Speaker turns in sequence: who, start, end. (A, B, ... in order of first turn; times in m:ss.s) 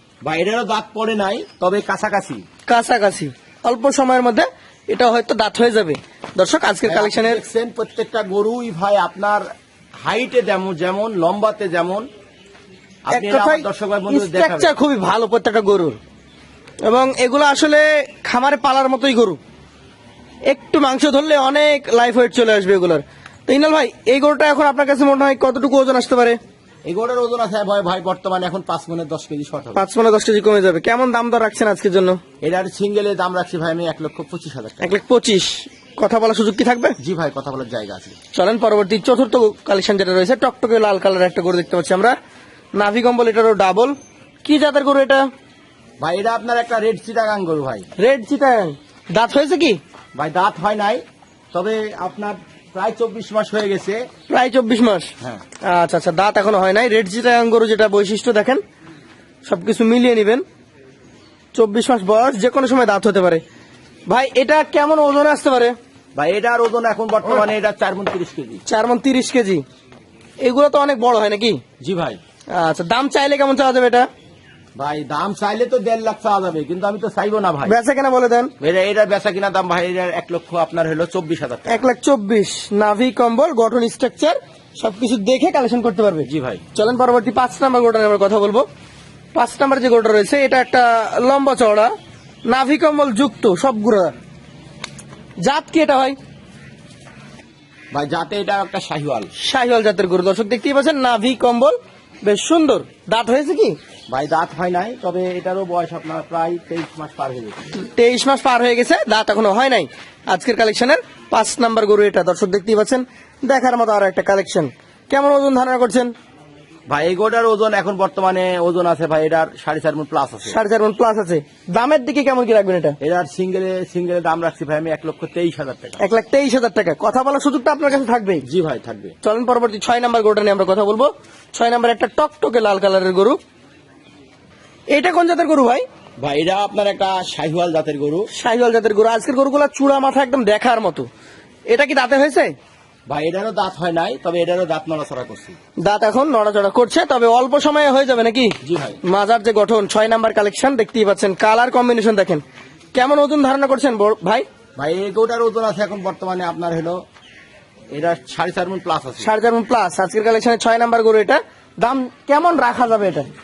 0:00.2-0:02.4 A
0:02.7-0:07.4 B
0:06.8-0:09.5 A
0:10.0-0:12.1 A
0:13.1-0:14.7 A
0:13.1-0:16.0 B
0:16.9-0:19.4 B
0:20.5-0:26.4 B
0:26.8-0:29.8 A
0:29.7-0:32.2 B
0:32.4-0:34.9 A
0:34.8-0:37.0 B
0:37.0-0:38.2 A
0:38.3-0:42.2 B
0:42.8-0:45.3 B
0:46.0-0:47.9 A
0:48.0-0:49.8 B
0:50.2-0:54.0 A
0:54.3-0:55.1 B
0:55.6-0:58.6 B
0:59.4-1:00.4 B
1:01.5-1:03.4 B
1:04.1-1:05.7 B
1:06.2-1:08.6 A
1:08.6-1:09.6 B
1:10.4-1:11.6 B
1:11.8-1:12.2 A
1:12.5-1:14.1 B
1:14.7-1:17.8 A
1:17.6-1:18.5 B
1:18.6-1:21.9 A
1:21.7-1:28.6 B
1:26.2-1:26.6 A
1:29.3-1:31.9 B
1:32.4-1:34.1 B
1:35.4-1:36.2 B
1:37.9-1:39.3 A
1:39.4-1:43.8 B
1:44.1-1:47.6 A
1:47.7-1:56.1 B
1:56.9-2:00.6 A
2:00.4-2:03.0 B
2:03.0-2:06.0 A
2:06.0-2:08.4 B
2:08.4-2:09.1 A
2:09.2-2:13.4 B
2:14.9-2:15.8 B
2:16.2-2:18.3 A
2:18.3-2:21.1 B
2:21.7-2:22.5 B
2:23.1-2:25.6 A
2:25.8-2:32.4 B
2:28.6-2:29.0 A
2:32.9-2:34.4 B
2:34.8-2:37.0 A
2:37.9-2:39.3 A
2:39.2-2:43.3 B